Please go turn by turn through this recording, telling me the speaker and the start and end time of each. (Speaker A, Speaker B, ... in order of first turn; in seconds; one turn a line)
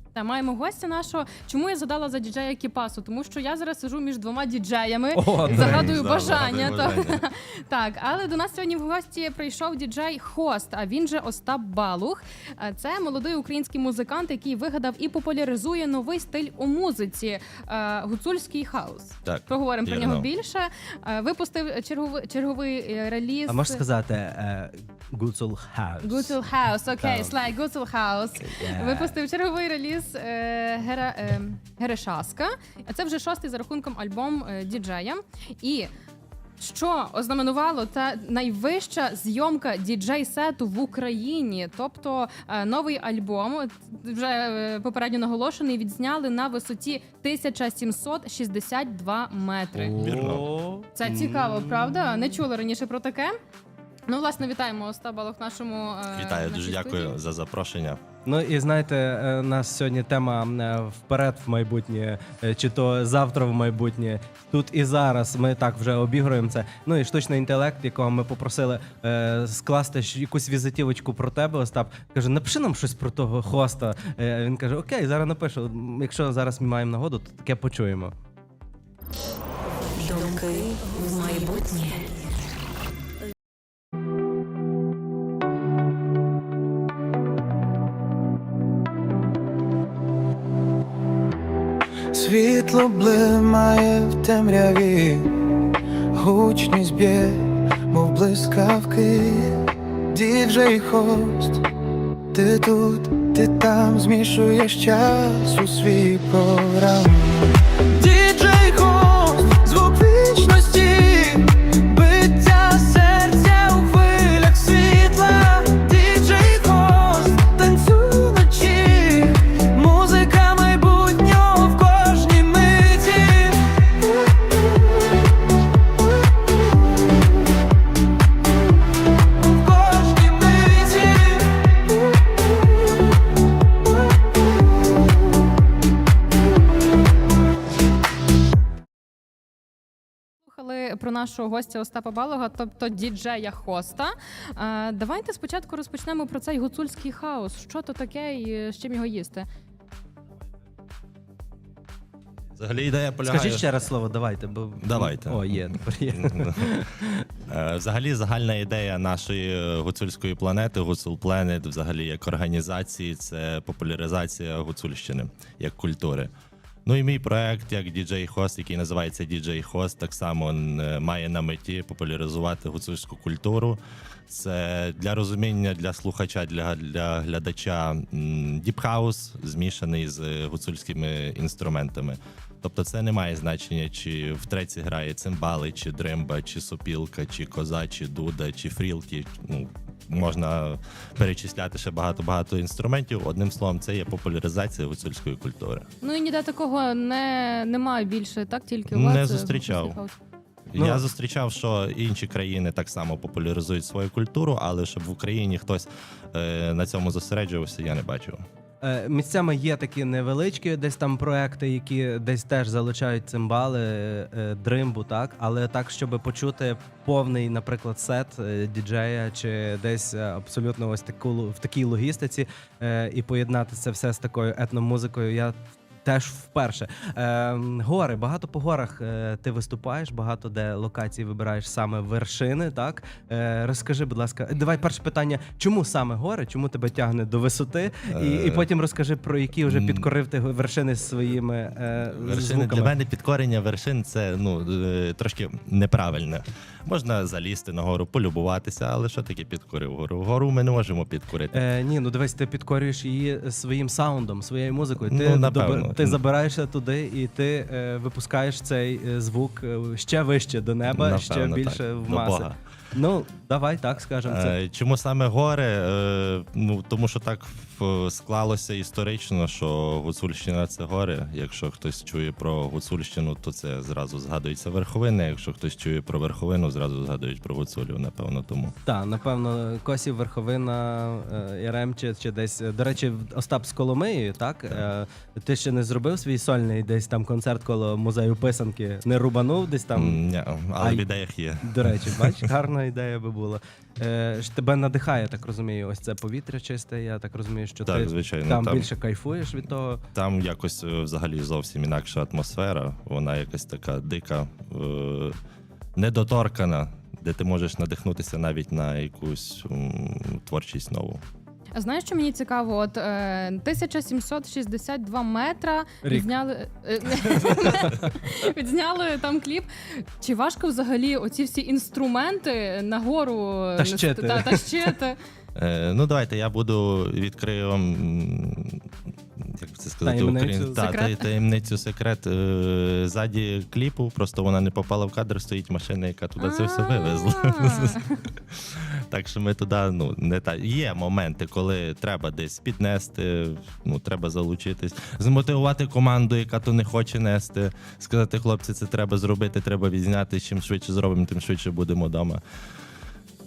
Speaker A: 0.1-23.8
Speaker B: 5.1-6.3
Speaker C: 5.4-7.2
Speaker C: 19.2-20.3
Speaker B: 23.5-26.4
Speaker A: 26.0-35.9
Speaker B: 27.0-27.3
Speaker B: 28.5-29.2
Speaker A: 36.6-50.3
Speaker B: 49.7-52.2
Speaker C: 50.0-50.5
Speaker A: 51.0-53.4
Speaker A: 54.1-57.2
Speaker C: 56.1-58.0
Speaker B: 58.2-78.2
Speaker D: 80.0-82.0
Speaker E: 92.1-95.5
Speaker E: 96.1-101.7
Speaker E: 102.3-123.6
Speaker E: 129.6-131.4
Speaker A: 140.5-149.5
Speaker C: 152.6-153.7
Speaker B: 153.2-157.2
Speaker C: 154.8-156.7
Speaker C: 157.5-166.3
Speaker C: 166.9-195.9
Speaker A: 196.0-200.1
Speaker C: 198.9-200.0
Speaker C: 200.7-208.4
Speaker B: 200.8-201.1
Speaker B: 208.8-242.9
Speaker C: 238.1-238.7
Speaker C: 239.7-240.1
Speaker C: 242.1-251.6
Speaker B: 251.5-264.6
Speaker C: 255.0-256.2
Speaker C: 260.9-262.6
Speaker C: 264.2-278.7
Speaker B: 278.9-290.2
Speaker C: 289.9-292.5
Speaker B: 290.8-291.1
Speaker B: 291.6-300.0
Speaker C: 297.9-298.9
Speaker C: 300.1-305.4
Speaker C: 306.0-311.2
Speaker A: 311.8-325.2
Speaker B: 316.0-316.4
Speaker B: 323.8-324.9
Speaker C: 325.6-328.9
Speaker C: 329.4-352.4
Speaker B: 330.0-330.8
Speaker A: 330.7-331.2
Speaker A: 336.4-338.1